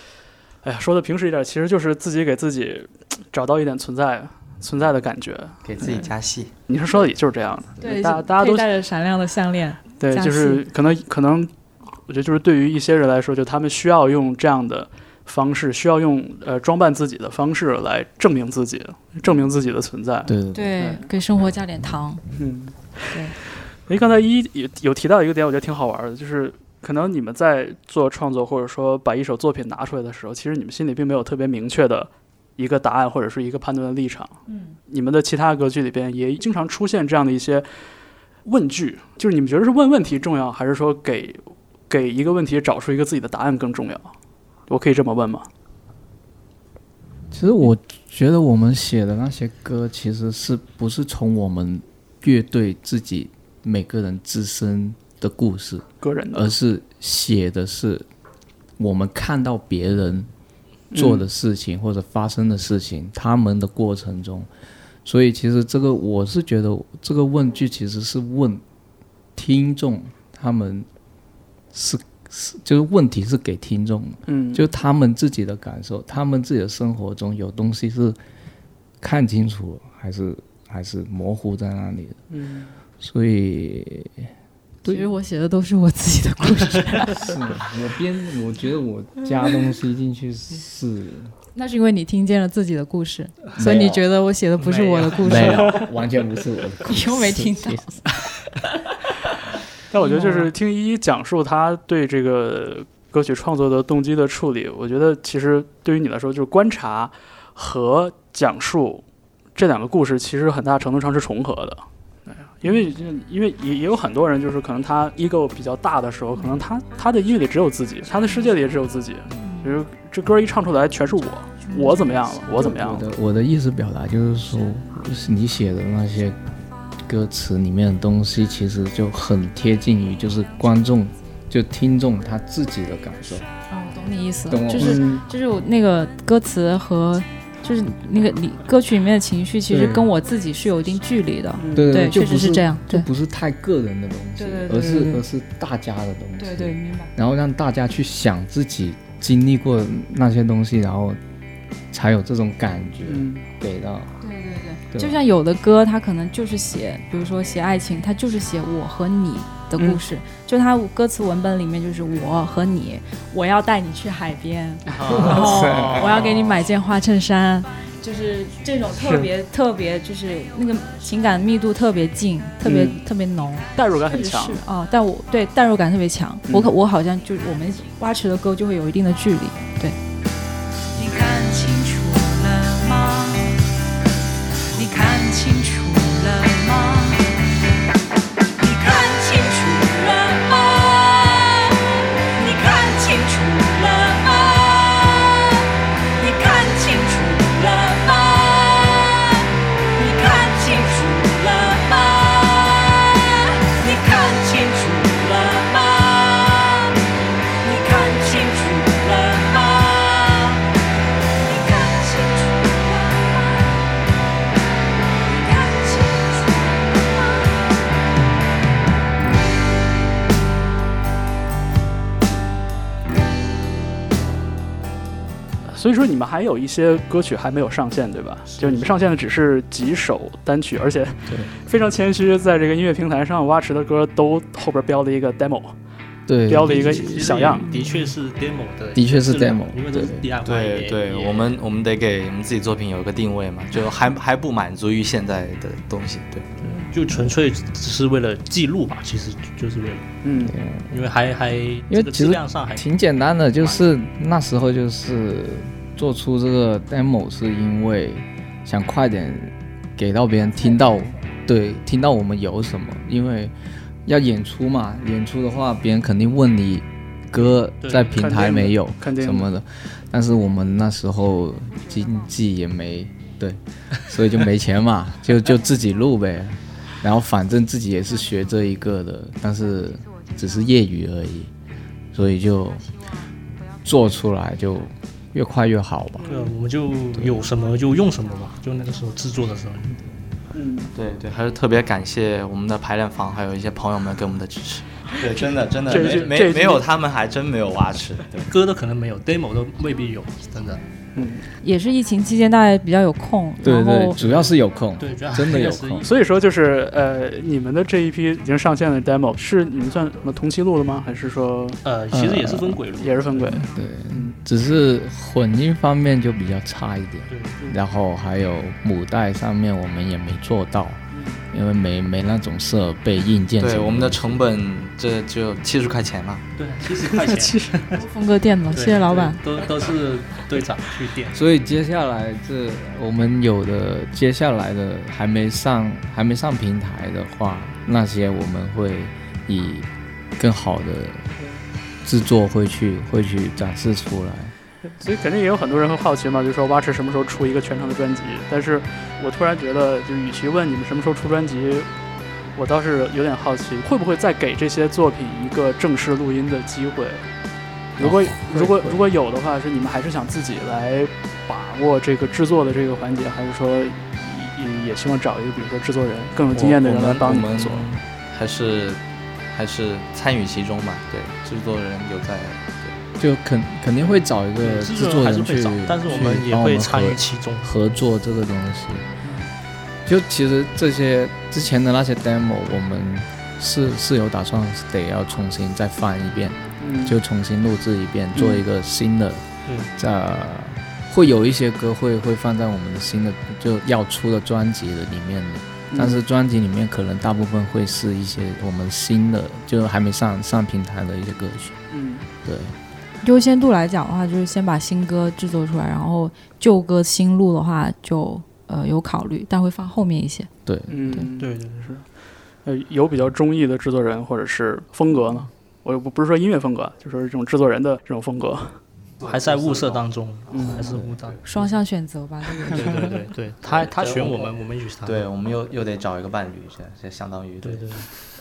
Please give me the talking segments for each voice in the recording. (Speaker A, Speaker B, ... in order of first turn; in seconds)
Speaker A: 0.6-6.0, 6.7-8.7, 10.0-11.5, 12.1-21.1, 22.4-22.8, 23.9-37.7, 38.4-44.1, 44.7-45.5, 56.0-56.5, 60.9-61.2, 74.3-74.7, 82.3-82.7, 99.9-109.0, 109.5-123.1, 134.8-135.2, 141.6-141.9, 153.0-153.4, 159.8-160.0, 164.9-165.2, 168.9-169.3, 172.6-173.0, 173.7-174.6, 176.5-176.7, 225.7-235.7, 236.5-237.7, 250.2-250.5, 268.1-269.5, 286.2-286.5, 290.5-290.9, 295.9-296.8, 301.1-301.5, 306.0-311.8, 313.0-314.4, 321.1-321.4, 327.0-327.8, 345.0-351.9, 352.5-357.2, 358.0-367.9, 379.2-379.5, 386.8-387.1, 388.3-388.6, 395.9-396.2, 401.9-402.2, 410.9-412.0, 412.6-418.8, 420.5-420.9
Speaker B: 5.6-6.5, 240.4-246.7, 290.9-298.5, 323.6-326.4, 366.5-369.0, 369.5-373.0, 420.5-421.4, 423.6-424.5, 425.0-428.0
Speaker C: 7.8-10.7, 20.5-22.2, 23.1-23.4, 84.8-87.3, 91.5-95.8, 96.8-98.0, 100.0-100.5, 119.4-119.8, 121.7-122.2, 133.7-143.1, 144.4-145.2, 146.4-147.1, 154.2-180.0, 301.6-304.2, 327.9-329.4, 403.2-410.5, 421.4-423.1
Speaker D: 20.2-20.7, 47.3-58.1, 58.8-60.3, 60.9-64.5, 65.0-68.6, 69.3-70.9, 71.7-78.2, 79.0-82.2, 83.0-84.3, 87.0-91.3, 93.6-94.0, 95.2-97.9, 122.5-126.4, 127.0-133.5, 134.5-135.0, 139.7-140.1, 141.7-151.2, 151.9-154.1, 154.9-155.2, 165.3-166.0, 236.3-237.5, 238.9-240.3, 250.4-250.9, 251.9-263.5, 264.1-281.5, 282.1-282.9, 283.8-286.3, 287.1-287.4, 303.6-306.1, 312.1-312.8, 313.5-324.5, 331.3-341.3, 342.0-344.5, 358.0-359.1, 373.2-379.1, 380.1-389.4, 390.0-401.8, 402.4-402.7, 410.6-411.2
Speaker E: 94.6-95.5, 164.9-166.6, 228.6-228.9, 236.7-241.6, 246.6-250.2, 250.9-252.9, 267.8-268.3, 286.3-290.0, 295.9-296.4, 298.4-300.8, 304.2-306.1, 311.8-313.6, 317.3-317.8, 326.6-328.0, 328.7-331.4, 374.6-377.7, 411.4-411.9, 419.2-421.7, 422.7-425.3, 427.6-428.1
Speaker F: 180.9-183.6, 184.7-187.4, 188.6-210.7, 211.4-214.0, 215.1-217.9